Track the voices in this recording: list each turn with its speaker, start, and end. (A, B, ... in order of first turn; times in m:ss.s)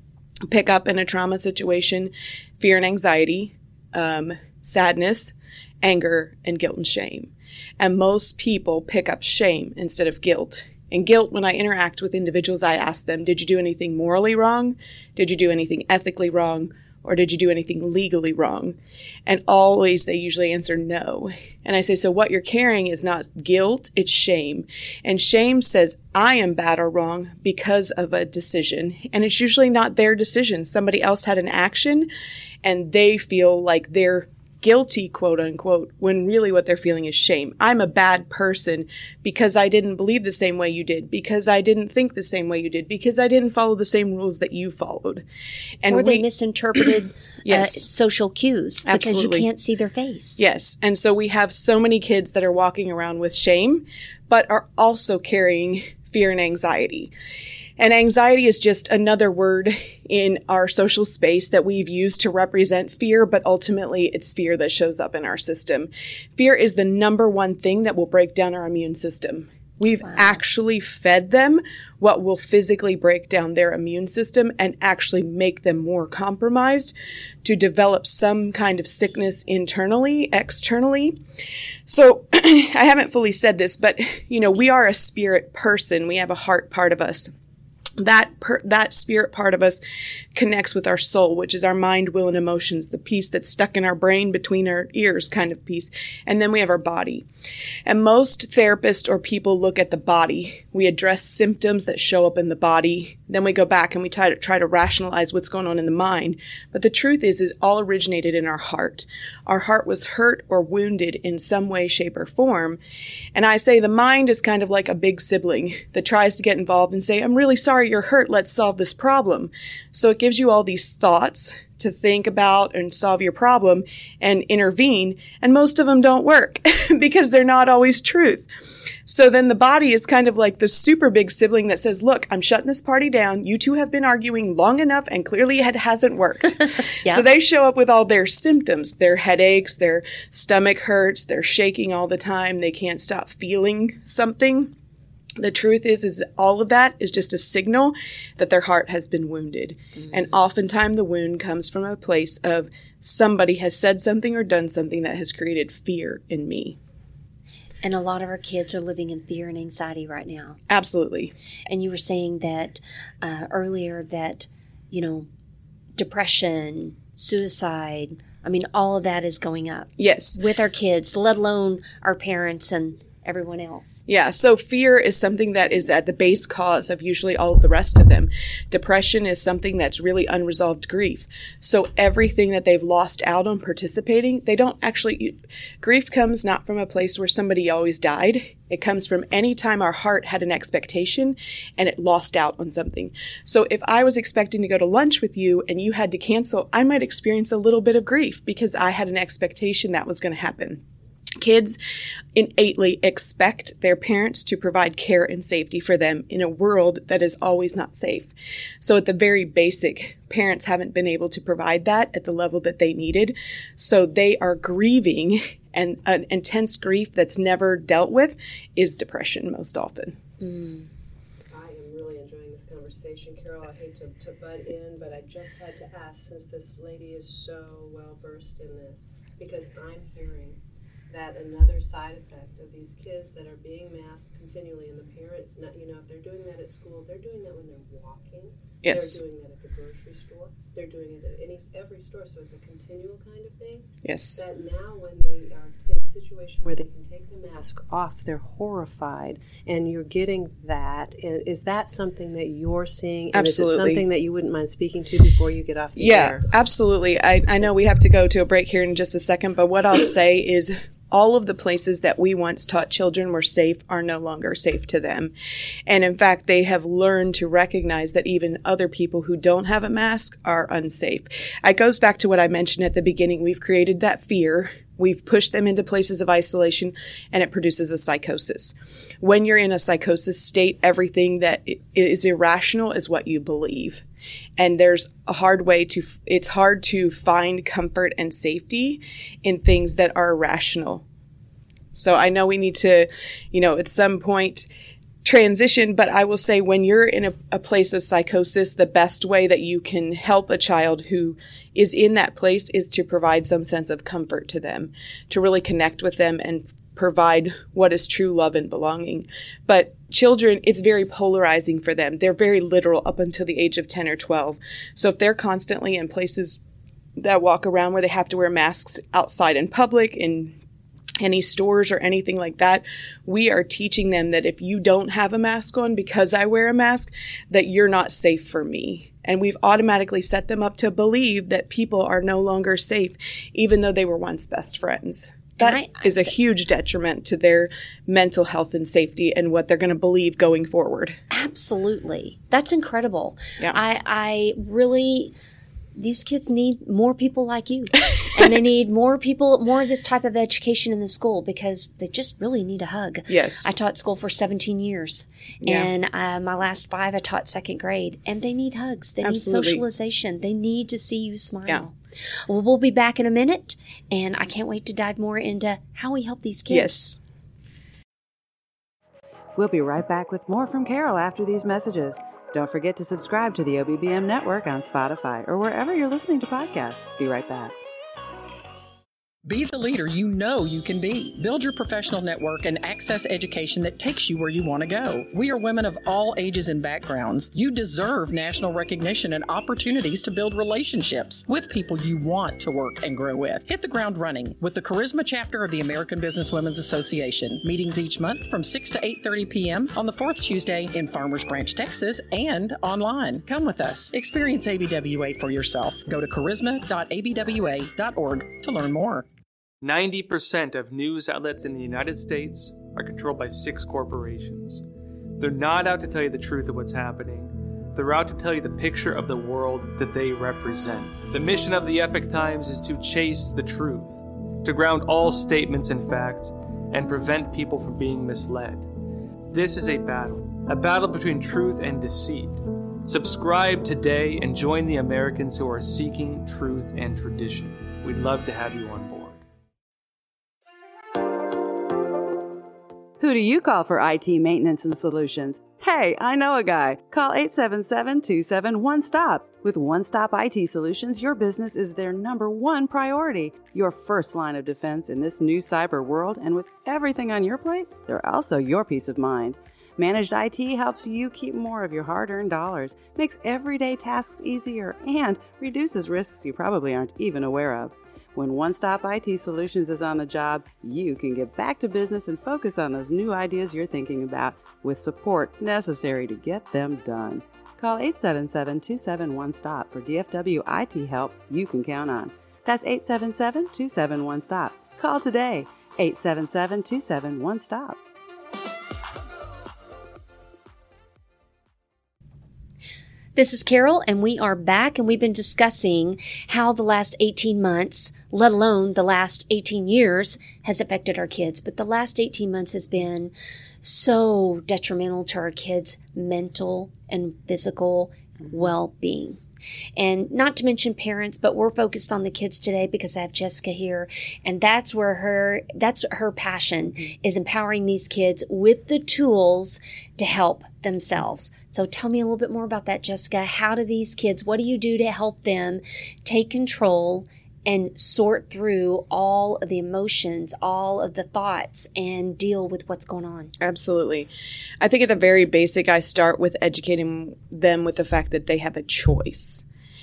0:00.5-0:32.1 A
0:32.6-0:45.2 A
0:45.8-0:46.2 A
0:45.9-0:50.4 B
0:47.4-0:47.8 A
0:48.8-0:49.5 A
0:50.4-0:57.1 A
0:57.8-1:21.2 A
1:10.0-1:10.4 B
1:21.9-1:27.3 A
1:28.0-1:29.8 A
1:30.3-1:37.2 A
1:37.8-1:52.8 A
1:53.3-2:08.4 A
2:09.0-2:24.7 A
2:25.4-2:36.8 A
2:37.8-2:40.6 B
2:40.7-2:41.3 A
2:41.7-2:45.3 B
2:46.0-2:54.0 B
2:50.0-2:50.4 A
2:54.1-3:20.8 A
3:21.4-3:21.8 A
3:22.3-3:40.2 A
3:40.4-3:40.9 B
3:41.5-3:50.6 C
3:51.1-4:16.5 C
3:58.8-3:59.2 A
4:04.0-4:04.4 A
4:13.3-4:14.0 A
4:15.9-4:25.3 A
4:25.9-4:44.0 A
4:44.6-4:51.0 A
4:51.9-4:54.7 A
4:55.2-5:16.6 A
5:17.2-5:20.6 A
5:21.2-5:41.2 A
5:35.6-5:36.3 B
5:41.3-5:45.3 B
5:46.0-6:01.9 B
5:53.3-5:53.7 A
5:55.6-5:55.9 A
5:59.2-5:59.8 A
6:02.5-6:07.1 B
6:06.7-6:07.2 A
6:09.6-6:17.7 D
6:19.4-6:49.2 E
6:49.8-6:54.8 F
6:55.4-7:08.9 F
7:09.5-7:19.4 F
7:23.2-8:08.0 D
8:13.4-8:29.4 B
8:30.0-8:53.5 B
8:53.6-8:54.3 A
8:54.8-8:59.6 A